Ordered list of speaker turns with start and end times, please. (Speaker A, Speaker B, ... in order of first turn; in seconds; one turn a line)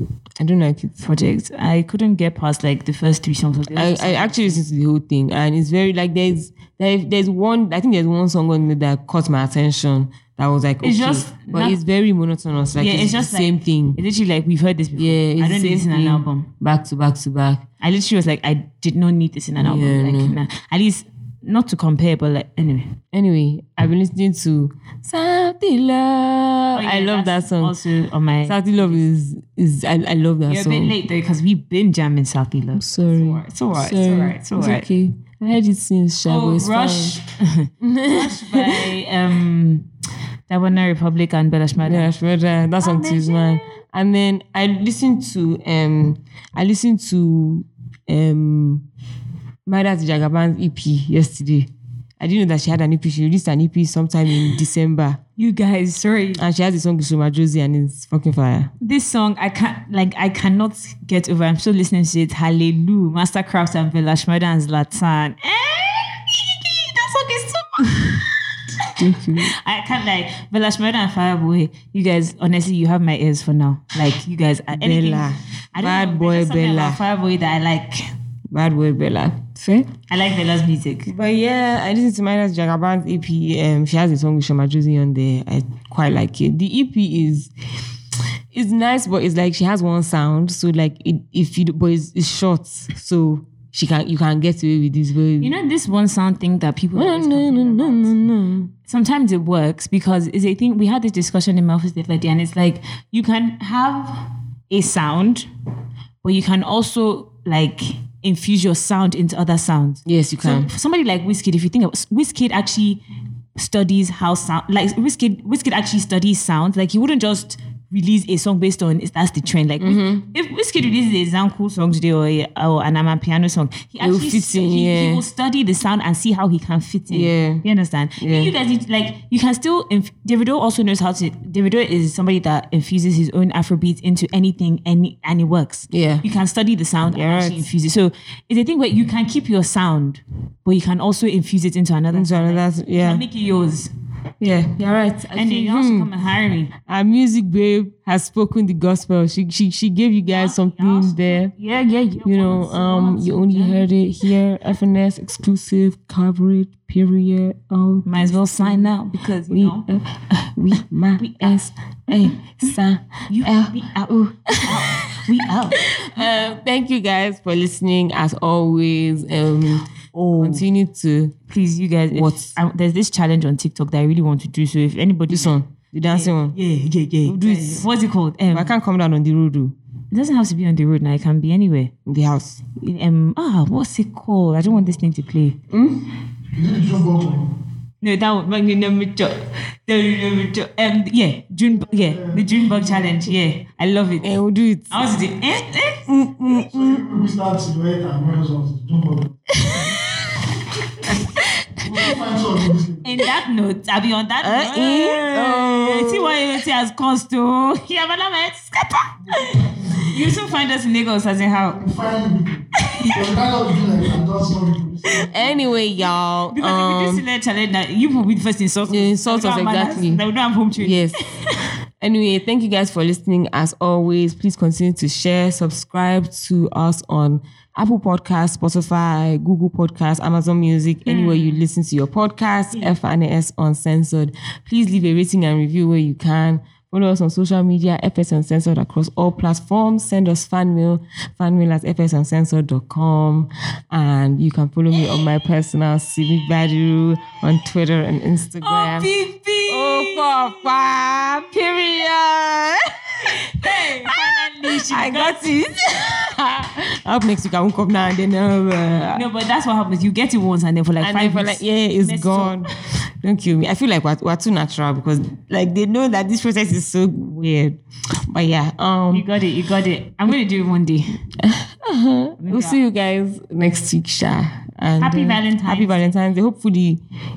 Speaker A: 0.4-1.0
Speaker B: 1.0-4.6
Speaker A: 3.7-14.0
Speaker B: 10.8-11.8
Speaker B: 12.8-16.5
Speaker A: 15.0-17.6
Speaker B: 17.8-22.9
Speaker A: 19.6-20.4
Speaker A: 23.1-27.8
Speaker B: 26.7-29.0
Speaker A: 28.5-30.9
Speaker B: 30.5-34.9
Speaker A: 32.8-37.2
Speaker B: 36.2-39.9
Speaker A: 37.8-38.9
Speaker B: 40.5-42.1
Speaker A: 41.8-48.9
Speaker B: 42.8-43.8
Speaker A: 49.7-55.2
Speaker B: 55.4-56.4
Speaker A: 56.4-58.7
Speaker B: 58.8-68.3
Speaker B: 69.0-78.1
Speaker A: 69.0-69.5
Speaker A: 74.7-77.0
Speaker A: 78.5-79.9
Speaker B: 80.1-81.1
Speaker A: 81.1-87.5
Speaker A: 88.5-95.5
Speaker B: 95.4-98.3
Speaker A: 97.0-98.7
Speaker B: 98.9-105.5
Speaker B: 106.2-113.0
Speaker A: 110.1-110.7
Speaker B: 113.6-143.9
Speaker A: 119.8-120.3
Speaker A: 124.0-125.2
Speaker A: 127.1-127.6
Speaker A: 128.2-128.5
Speaker A: 135.9-136.2
Speaker A: 137.1-137.7
Speaker A: 142.1-143.2
Speaker A: 144.4-146.1
Speaker B: 145.3-146.7
Speaker A: 146.8-151.5
Speaker B: 150.3-153.9
Speaker A: 152.2-158.9
Speaker B: 158.1-159.9
Speaker A: 159.5-165.2
Speaker B: 160.8-161.6
Speaker B: 162.1-162.6
Speaker B: 163.3-166.2
Speaker A: 165.8-171.4
Speaker B: 170.1-170.7
Speaker B: 171.5-178.7
Speaker A: 172.1-172.6
Speaker A: 175.3-176.6
Speaker A: 177.2-177.9
Speaker A: 178.5-179.8
Speaker B: 180.1-181.9
Speaker A: 182.1-182.6
Speaker B: 182.8-185.6
Speaker A: 185.7-186.1
Speaker C: 186.6-187.5
Speaker B: 188.0-194.3
Speaker C: 192.0-193.2
Speaker A: 194.2-195.1
Speaker B: 194.9-196.1
Speaker A: 196.1-197.2
Speaker C: 196.6-199.6
Speaker A: 201.0-202.1
Speaker C: 201.8-203.1
Speaker B: 203.0-211.8
Speaker A: 204.4-206.4
Speaker C: 209.3-210.2
Speaker C: 211.7-215.6
Speaker B: 212.9-213.2
Speaker A: 215.3-217.2
Speaker B: 216.5-221.6
Speaker A: 218.9-220.2
Speaker A: 220.8-221.2
Speaker A: 222.0-249.1
Speaker B: 231.1-231.6
Speaker B: 248.6-250.7
Speaker A: 249.7-259.2
Speaker B: 253.5-255.5
Speaker B: 259.1-262.6
Speaker A: 261.0-269.3
Speaker B: 269.1-271.2
Speaker A: 271.4-277.0
Speaker B: 272.4-272.8
Speaker B: 275.0-276.1